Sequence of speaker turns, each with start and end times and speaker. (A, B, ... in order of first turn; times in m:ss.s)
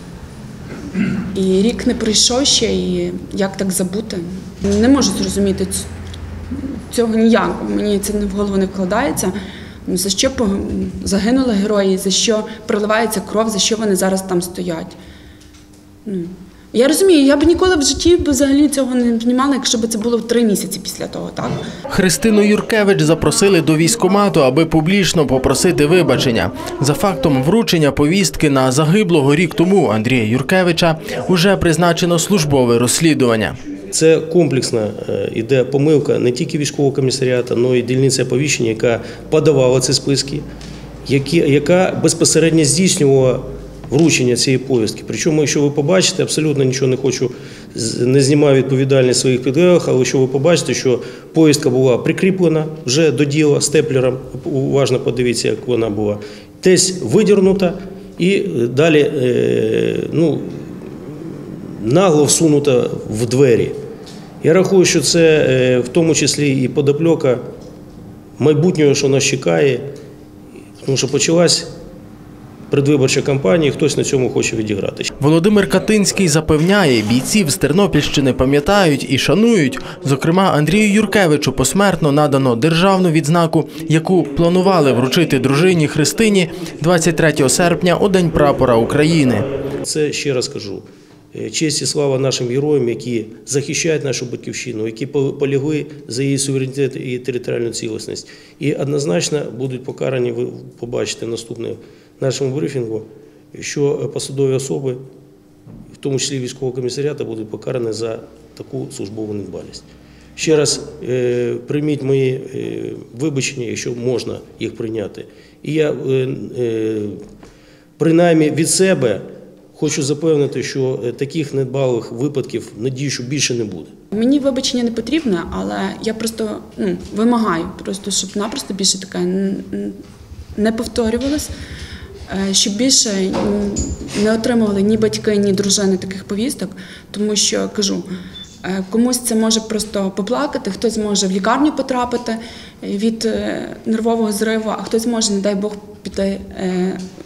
0:01.3-0:05.9 A
0:06.5-0:09.3 A
0:09.8-0:15.0 A
0:16.0-0:21.6 A
0:21.9-0:33.6 B
0:33.9-0:40.4 C
0:41.1-1:00.8 C
1:01.7-1:03.8 C
1:04.4-1:07.4 C
1:08.4-1:09.8 C
1:10.8-1:11.7 C
1:12.7-1:15.1 C
1:15.2-1:29.5 B
1:29.8-1:45.0 C
1:46.0-1:57.2 C
1:58.0-1:59.2 C
1:59.8-2:03.9 C
2:04.1-2:10.0 A
2:10.6-2:11.5 A
2:12.3-2:18.0 A
2:18.6-2:27.0 A